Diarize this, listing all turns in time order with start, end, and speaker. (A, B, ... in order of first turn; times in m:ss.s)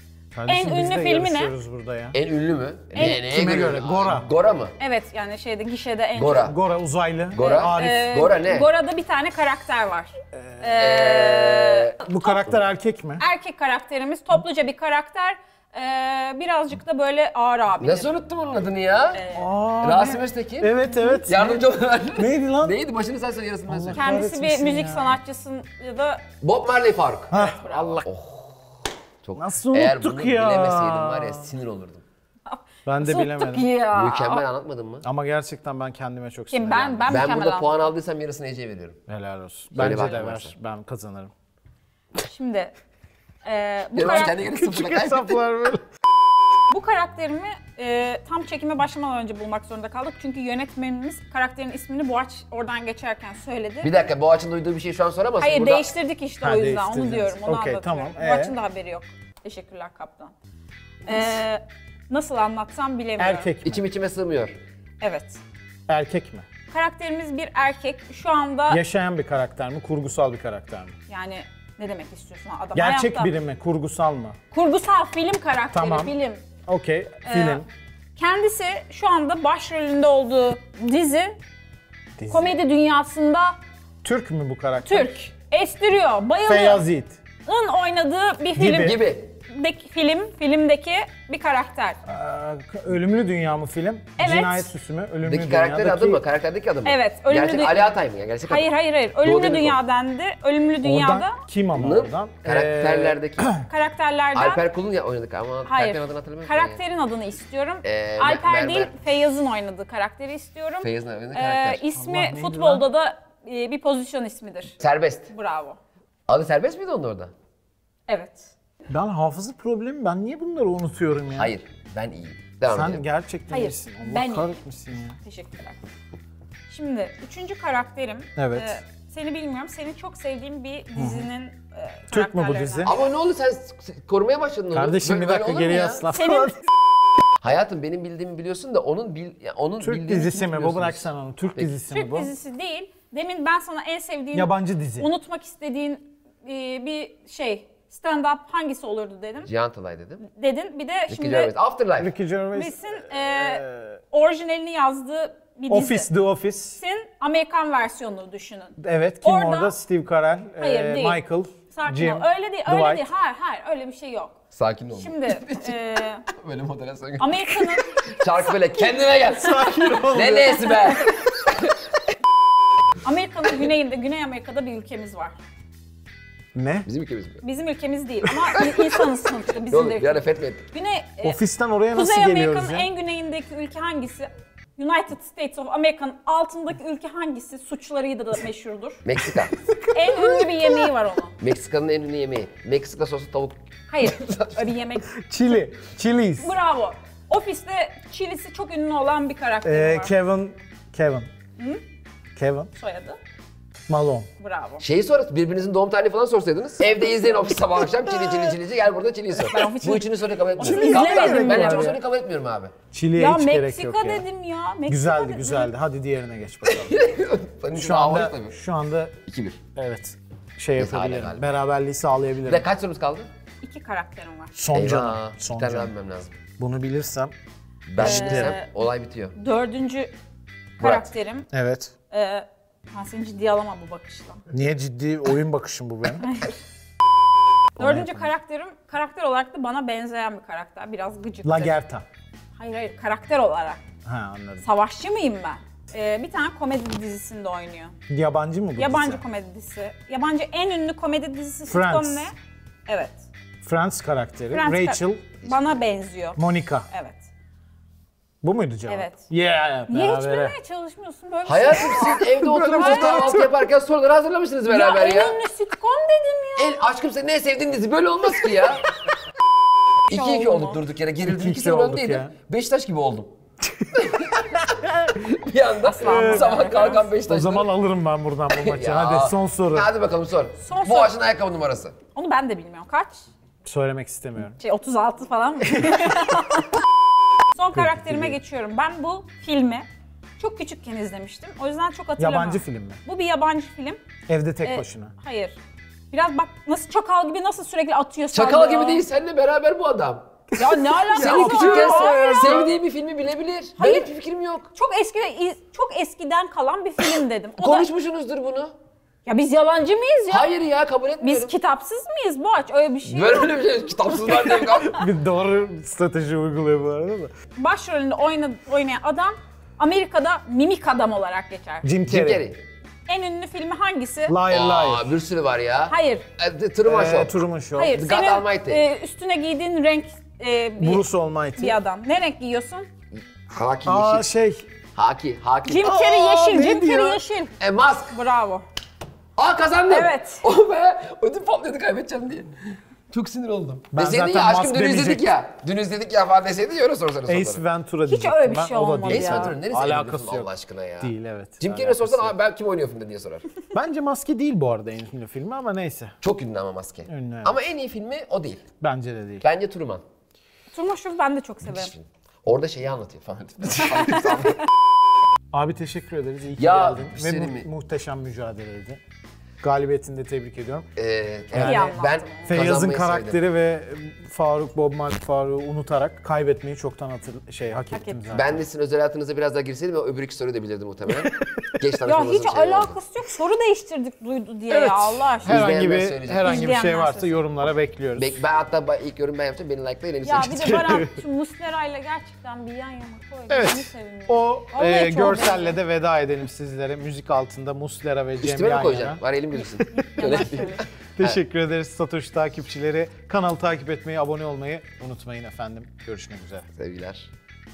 0:00.3-0:02.2 A
0:00.5-0:01.5 B
0:02.1-0:04.8 C
0:03.0-0:04.3 A
0:04.8-0:06.5 B
0:06.2-0:06.6 C
0:06.4-0:08.1 A
0:07.3-0:08.7 C
0:07.4-0:12.4 B
0:10.3-0:10.8 A
0:10.8-0:12.0 C
0:12.0-0:13.2 A
0:13.2-0:18.1 B
0:17.8-0:19.2 C
0:19.1-0:19.6 B
0:19.3-0:21.6 A
0:19.8-0:20.7 C
0:20.8-0:21.3 B
0:21.3-0:24.1 C
0:22.2-0:22.8 A
0:23.7-0:25.2 A
0:23.9-0:26.2 B
0:26.4-0:27.3 C
0:27.3-0:28.1 A
0:27.3-0:28.0 B
0:28.0-0:28.6 C
0:29.2-0:32.0 C
0:29.4-0:31.5 A
0:32.5-0:34.4 B
0:32.9-0:33.7 A
0:33.9-0:35.1 C
0:35.0-0:37.2 A
0:36.5-0:37.8 B
0:37.1-0:39.0 C
0:39.1-0:41.3 A
0:39.8-0:40.5 C
0:42.2-0:42.7 B
0:43.4-0:44.4 B
0:44.0-0:45.4 C
0:44.2-0:45.8 A
0:46.7-0:54.0 B
0:53.8-0:55.9 C
0:55.4-1:00.3 B
0:56.4-0:58.6 A
1:01.1-1:03.5 B
1:03.2-1:03.8 A
1:03.6-1:04.6 C
1:05.0-1:05.4 B
1:05.9-1:06.5 A
1:06.7-1:08.8 B
1:08.7-1:11.0 A
1:11.1-1:13.3 B
1:12.8-1:14.4 A
1:14.5-1:16.4 B
1:15.7-1:16.2 A
1:16.7-1:17.7 A
1:17.2-1:17.6 B
1:18.2-1:21.4 B
1:22.2-1:22.5 A
1:22.3-1:23.6 B
1:24.0-1:25.2 A
1:24.8-1:26.8 B
1:26.5-1:27.2 A
1:27.5-1:32.0 B
1:28.6-1:29.0 A
1:28.6-1:29.3 C
1:32.1-1:36.2 A
1:34.2-1:34.7 B
1:35.2-1:38.7 C
1:36.8-1:41.4 B
1:39.2-1:39.8 C
1:40.8-1:43.7 A
1:41.8-1:43.5 C
1:43.6-1:44.6 B
1:44.4-1:46.8 C
1:45.6-1:54.8 B
1:47.8-1:48.9 C
1:50.8-1:51.9 C
1:51.9-1:52.9 A
1:54.8-1:55.3 C
1:55.3-1:55.8 B
1:56.3-1:57.3 C
1:58.1-1:58.5 B
1:58.9-2:01.5 A
2:01.3-2:03.0 C
2:02.7-2:05.2 A
2:03.5-2:04.6 B
2:05.2-2:05.8 B
2:06.7-2:13.0 B
2:08.4-2:08.8 A
2:11.0-2:11.3 A
2:12.1-2:13.0 A
2:12.8-2:16.0 C
2:14.7-2:16.6 A
2:16.1-2:16.5 B
2:17.4-2:21.7 C
2:19.8-2:22.3 A
2:21.9-2:29.5 B
2:24.3-2:25.1 A
2:29.4-2:30.2 C
2:30.2-2:31.5 B
2:31.1-2:32.1 C
2:32.0-2:34.0 A
2:32.5-2:36.1 B
2:35.7-2:36.8 A
2:36.8-2:39.8 B
2:38.8-2:43.0 A
2:40.6-2:44.4 B
2:44.5-2:45.8 C
2:45.0-2:46.2 B
2:46.4-2:51.6 C
2:47.2-2:48.9 B
2:49.3-2:51.0 A
2:49.6-2:51.0 B
2:53.0-2:55.4 B
2:56.5-2:56.9 A
2:56.8-2:57.4 C
2:57.4-3:01.4 B
2:59.7-3:00.6 C
3:01.2-3:02.9 A
3:01.9-3:09.0 B
3:09.0-3:09.6 C
3:09.2-3:10.9 A
3:09.9-3:11.4 B
3:11.4-3:14.6 C
3:13.9-3:15.1 B
3:15.2-3:16.5 A
3:16.4-3:20.1 B
3:19.6-3:21.3 A
3:22.4-3:22.7 A
3:22.7-3:23.2 B
3:23.9-3:24.3 A
3:24.4-3:24.8 B
3:24.8-3:32.7 C
3:29.4-3:30.1 B
3:30.6-3:31.9 B
3:30.6-3:32.0 A
3:32.9-3:34.2 A
3:33.2-3:35.7 B
3:34.9-3:37.0 A
3:36.7-3:38.6 C
3:37.7-3:39.1 A
3:39.3-3:39.6 C
3:39.8-3:42.7 A
3:40.8-3:41.5 C
3:42.4-3:43.3 C
3:43.6-3:44.5 B
3:44.6-3:45.9 A
3:44.7-3:46.4 C
3:46.6-3:47.3 A
3:47.9-3:49.4 C
3:48.0-3:48.6 A
3:48.0-3:48.7 B
3:49.4-3:50.1 B
3:50.8-3:51.1 C
3:50.8-3:51.5 B
3:51.5-3:51.9 A
3:52.1-3:54.4 B
3:54.5-3:56.3 A
3:56.2-3:56.5 B
3:57.8-3:58.3 A
3:57.8-4:01.8 B
4:01.4-4:02.1 A
4:02.6-4:03.8 B
4:04.0-4:04.6 A
4:04.6-4:08.0 B
4:08.1-4:09.2 A
4:08.8-4:12.3 B
4:11.7-4:12.3 A
4:12.9-4:13.2 B
4:13.6-4:15.3 A
4:14.5-4:17.3 B
4:15.4-4:15.8 C
4:16.4-4:16.9 A
4:18.4-4:20.6 A
4:18.9-4:19.2 B
4:19.9-4:23.3 B
4:21.4-4:25.4 C
4:21.7-4:23.6 A
4:24.7-4:26.8 B
4:26.6-4:28.8 C
4:30.1-4:33.3 C
4:30.1-4:30.8 B
4:31.2-4:32.3 A
4:33.9-4:34.4 C
4:35.2-4:37.7 C
4:35.8-4:37.1 B
4:36.0-4:36.6 A
4:37.3-4:39.9 A
4:38.5-4:42.0 C
4:40.6-4:41.2 B
4:42.1-4:43.3 B
4:43.6-4:44.6 A
4:44.6-4:46.8 B
4:47.5-4:49.9 B
4:47.7-4:48.4 A
4:50.4-4:54.0 B
4:52.2-4:53.0 A
4:54.3-4:55.1 A
4:54.6-4:55.6 B
4:56.1-4:59.0 B
4:58.3-5:00.3 C
5:00.5-5:02.7 A
5:00.6-5:02.7 B
5:01.1-5:04.7 C
5:03.8-5:04.1 B
5:04.7-5:07.9 B
5:07.6-5:08.7 C
5:09.3-5:10.5 B
5:10.3-5:11.5 C
5:11.2-5:13.5 B
5:13.1-5:15.0 C
5:14.1-5:14.6 B
5:14.6-5:17.3 A
5:17.6-5:21.9 B
5:21.8-5:22.5 A
5:22.1-5:22.6 C
5:23.1-5:24.4 B
5:24.3-5:25.1 A
5:24.5-5:27.3 C
5:25.9-5:26.2 B
5:26.8-5:28.0 A
5:27.8-5:32.9 B
5:27.9-5:28.8 C
5:30.8-5:31.8 A
5:33.4-5:34.2 C
5:33.9-5:34.7 A
5:35.0-5:35.9 C
5:35.7-5:37.5 B
5:35.8-5:37.2 A
5:37.6-5:38.2 C
5:38.1-5:38.6 B
5:39.4-5:42.6 C
5:39.9-5:40.4 B
5:43.1-5:47.6 C
5:43.9-5:45.2 A
5:47.2-5:52.3 A
5:48.0-5:49.6 B
5:49.1-5:53.5 C
5:53.7-5:56.2 A
5:56.2-5:58.6 C
5:57.1-5:57.6 A
5:58.8-5:59.5 A
5:59.4-6:00.0 C
6:00.7-6:01.9 B
6:01.7-6:04.6 C
6:03.8-6:04.2 B
6:05.5-6:09.0 A
6:06.6-6:07.7 C
6:09.6-6:10.9 A
6:11.0-6:13.4 C
6:11.5-6:18.6 A
6:11.6-6:12.6 B
6:17.9-6:18.2 B
6:18.3-6:23.0 C
6:21.1-6:21.7 A
6:22.0-6:25.7 B
6:24.7-6:28.4 A
6:25.4-6:26.8 C
6:26.4-6:27.4 B
6:28.2-6:30.8 C
6:30.2-6:35.8 B
6:30.4-6:31.2 A
6:33.5-6:39.2 A
6:38.4-6:41.4 C
6:39.9-6:40.8 B
6:41.2-6:46.7 A
6:46.8-6:47.3 C